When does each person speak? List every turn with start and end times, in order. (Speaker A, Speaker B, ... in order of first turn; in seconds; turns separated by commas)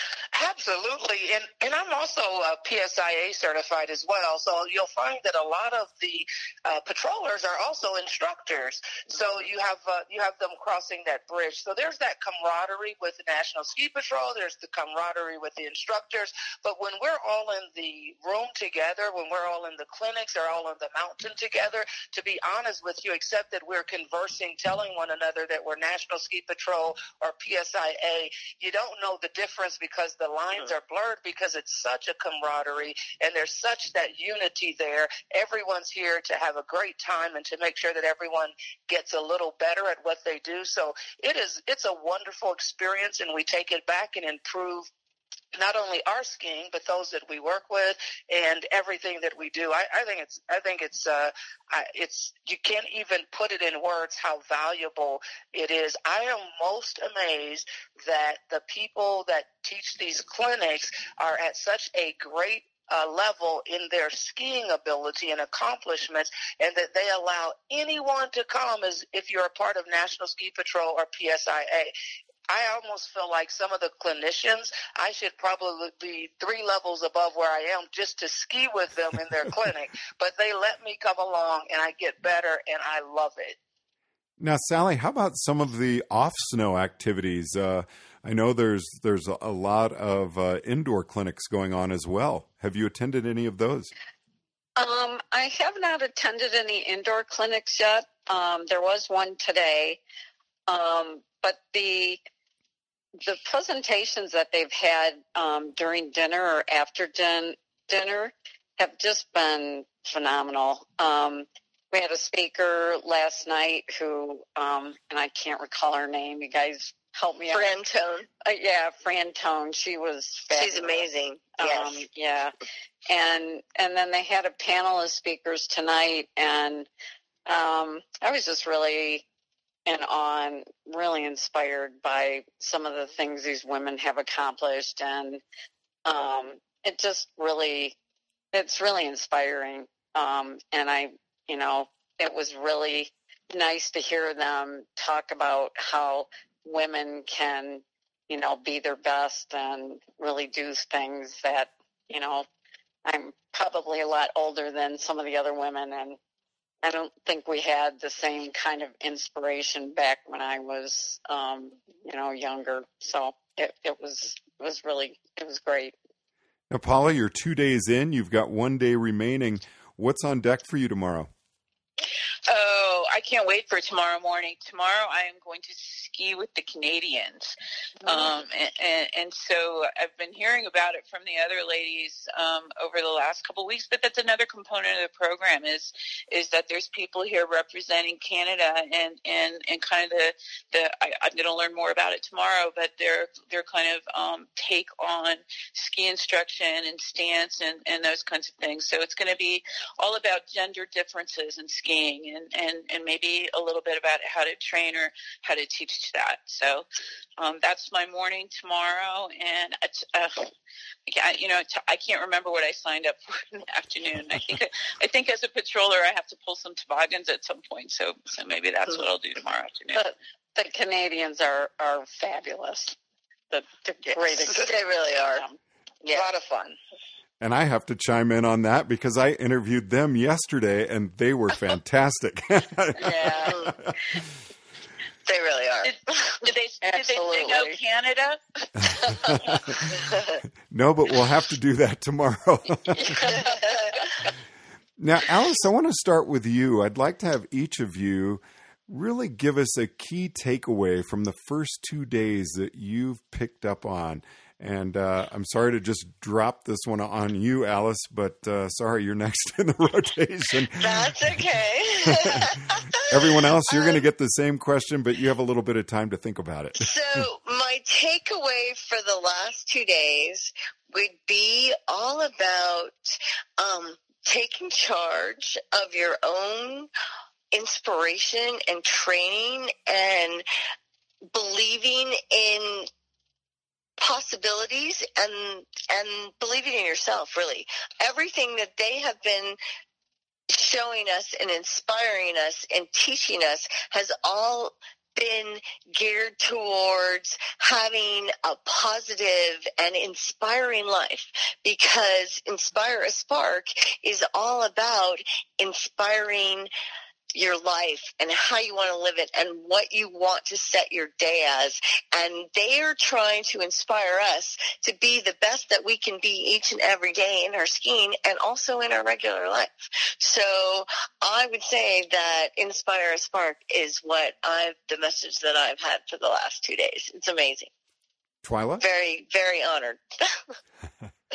Speaker A: 0.3-44.9, Speaker A: 45.5-71.9, Speaker A: 72.5-83.6, Speaker B: 84.4-93.9, Speaker C: 94.8-100.0, Speaker C: 100.7-102.2, Speaker C: 103.2-117.7, Speaker D: 117.5-118.3, Speaker C: 118.5-122.5, Speaker D: 120.5-122.0, Speaker C: 123.1-126.9, Speaker C: 127.5-129.2, Speaker C: 129.9-135.4, Speaker C: 136.1-138.0, Speaker C: 138.5-152.5, Speaker C: 153.1-156.2, Speaker C: 156.8-165.9, Speaker B: 166.7-171.3, Speaker E: 172.5-177.5, Speaker E: 178.0-206.9, Speaker E: 207.4-210.5, Speaker E: 211.1-220.0, Speaker C: 219.9-223.0, Speaker C: 223.5-225.6, Speaker D: 224.0-225.4, Speaker D: 226.0-226.3, Speaker A: 226.1-226.8, Speaker B: 227.4-234.0, Speaker C: 233.0-233.7, Speaker D: 233.5-233.8, Speaker D: 235.3-235.9, Speaker E: 235.8-238.4, Speaker C: 236.8-237.8, Speaker C: 238.8-239.6, Speaker D: 240.0-240.3, Speaker B: 240.7-243.3, Speaker C: 242.9-244.0, Speaker D: 243.4-243.9, Speaker B: 245.0-261.1, Speaker D: 260.8-264.0, Speaker B: 262.1-262.5, Speaker B: 263.1-267.3, Speaker D: 266.8-276.9, Speaker D: 277.5-280.4, Speaker D: 281.3-282.9, Speaker D: 284.0-289.6, Speaker D: 290.5-306.7, Speaker D: 307.4-327.7, Speaker B: 328.4-328.8, Speaker D: 328.8-330.4